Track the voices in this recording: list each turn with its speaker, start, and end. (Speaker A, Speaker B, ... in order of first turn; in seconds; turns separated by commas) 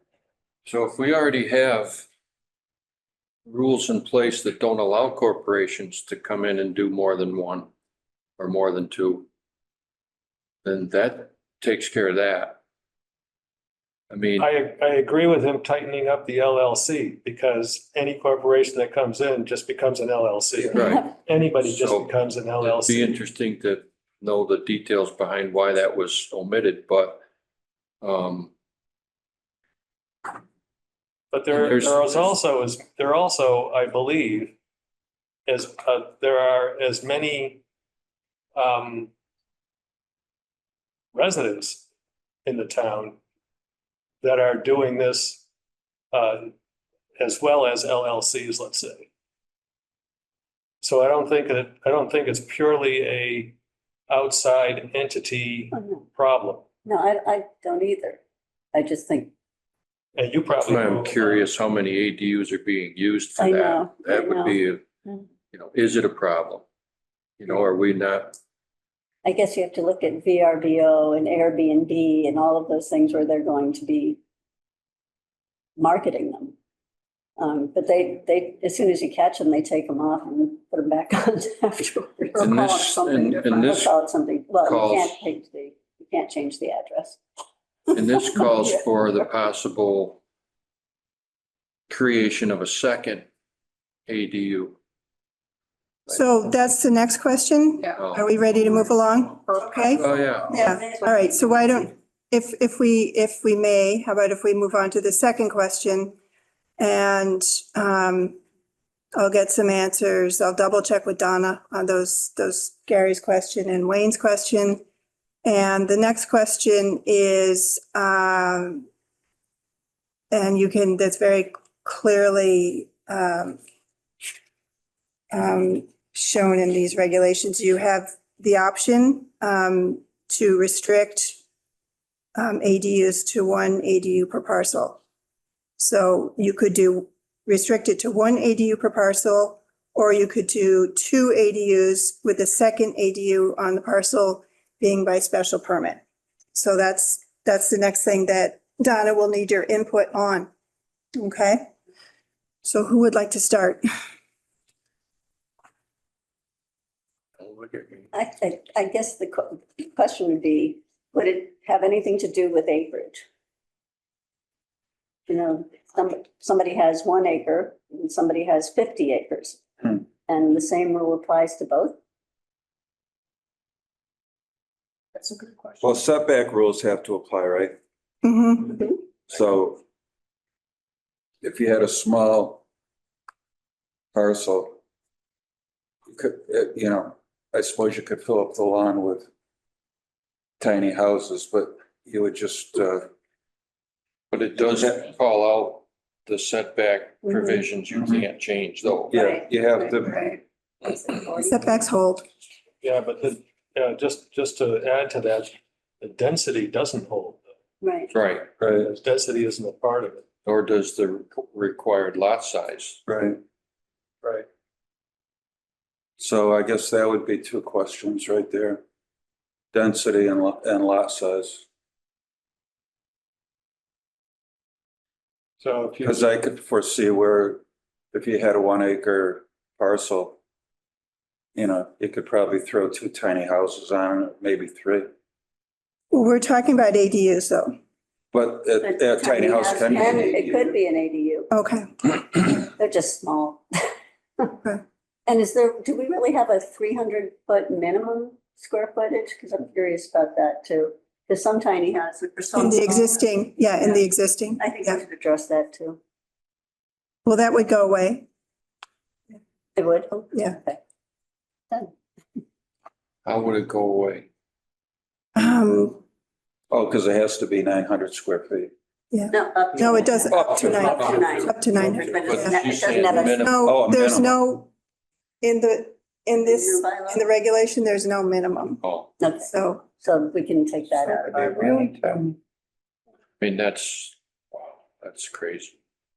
Speaker A: 0.7-2.1, Speaker A: 3.5-7.7, Speaker A: 8.4-9.3, Speaker A: 10.6-12.6, Speaker A: 14.1-14.5, Speaker B: 14.4-23.2, Speaker A: 20.6-27.2, Speaker A: 28.0-28.5, Speaker B: 31.3-34.5, Speaker A: 31.5-32.3, Speaker B: 35.5-37.6, Speaker B: 38.6-39.1, Speaker B: 41.1-41.8, Speaker B: 42.5-43.2, Speaker B: 44.2-45.4, Speaker B: 46.1-46.5, Speaker B: 47.2-49.1, Speaker B: 50.8-53.6, Speaker B: 54.1-56.7, Speaker C: 55.7-56.0, Speaker C: 56.9-58.2, Speaker C: 58.7-59.3, Speaker B: 60.1-61.4, Speaker A: 60.6-64.9, Speaker C: 63.4-64.6, Speaker A: 65.5-66.7, Speaker A: 67.4-68.4, Speaker C: 69.2-74.2, Speaker C: 75.8-76.5, Speaker C: 77.4-87.2, Speaker A: 82.4-84.0, Speaker A: 84.6-85.2, Speaker A: 87.9-90.2, Speaker A: 91.9-93.3, Speaker A: 94.1-94.8, Speaker D: 96.1-106.2, Speaker A: 98.0-98.4, Speaker A: 100.0-100.6, Speaker C: 100.5-101.5, Speaker D: 106.8-108.4, Speaker D: 109.1-114.8, Speaker D: 115.4-118.9, Speaker D: 120.3-123.6, Speaker D: 125.3-131.4, Speaker D: 132.3-135.0, Speaker D: 135.8-146.0, Speaker D: 146.5-150.5, Speaker D: 151.2-151.7, Speaker D: 152.6-153.8, Speaker A: 157.4-158.0, Speaker C: 158.1-163.2, Speaker C: 165.3-169.6, Speaker C: 170.3-172.0, Speaker E: 175.8-177.8, Speaker D: 178.2-178.8, Speaker C: 178.7-179.0, Speaker E: 179.3-179.8, Speaker E: 181.4-182.6, Speaker E: 184.1-184.8, Speaker E: 186.1-189.3, Speaker E: 190.6-193.1, Speaker A: 194.3-199.1, Speaker C: 197.2-197.6, Speaker E: 199.1-200.3, Speaker C: 199.1-201.8, Speaker D: 201.4-202.2, Speaker B: 202.8-207.4, Speaker C: 207.8-208.1, Speaker A: 208.1-208.5, Speaker E: 208.6-208.9, Speaker B: 208.7-210.2, Speaker A: 210.4-213.0, Speaker E: 213.1-213.4, Speaker E: 216.2-218.8, Speaker E: 219.7-221.7, Speaker B: 225.6-226.2, Speaker E: 226.0-227.6, Speaker E: 228.1-230.4, Speaker E: 231.6-235.1, Speaker D: 236.1-237.7, Speaker E: 238.3-240.7, Speaker C: 238.8-241.5, Speaker D: 241.5-241.9, Speaker C: 242.5-243.9, Speaker C: 245.3-256.0, Speaker D: 252.6-255.0, Speaker D: 257.2-258.3, Speaker C: 259.8-260.8, Speaker A: 263.2-264.3, Speaker D: 265.4-266.0, Speaker E: 266.7-268.7, Speaker D: 269.1-274.7, Speaker C: 269.3-273.4, Speaker A: 270.4-271.5, Speaker A: 272.2-273.6, Speaker E: 273.6-274.4, Speaker D: 275.4-278.8, Speaker C: 276.4-277.3, Speaker A: 278.8-279.1, Speaker C: 279.2-281.9, Speaker D: 279.5-279.8, Speaker A: 283.4-285.8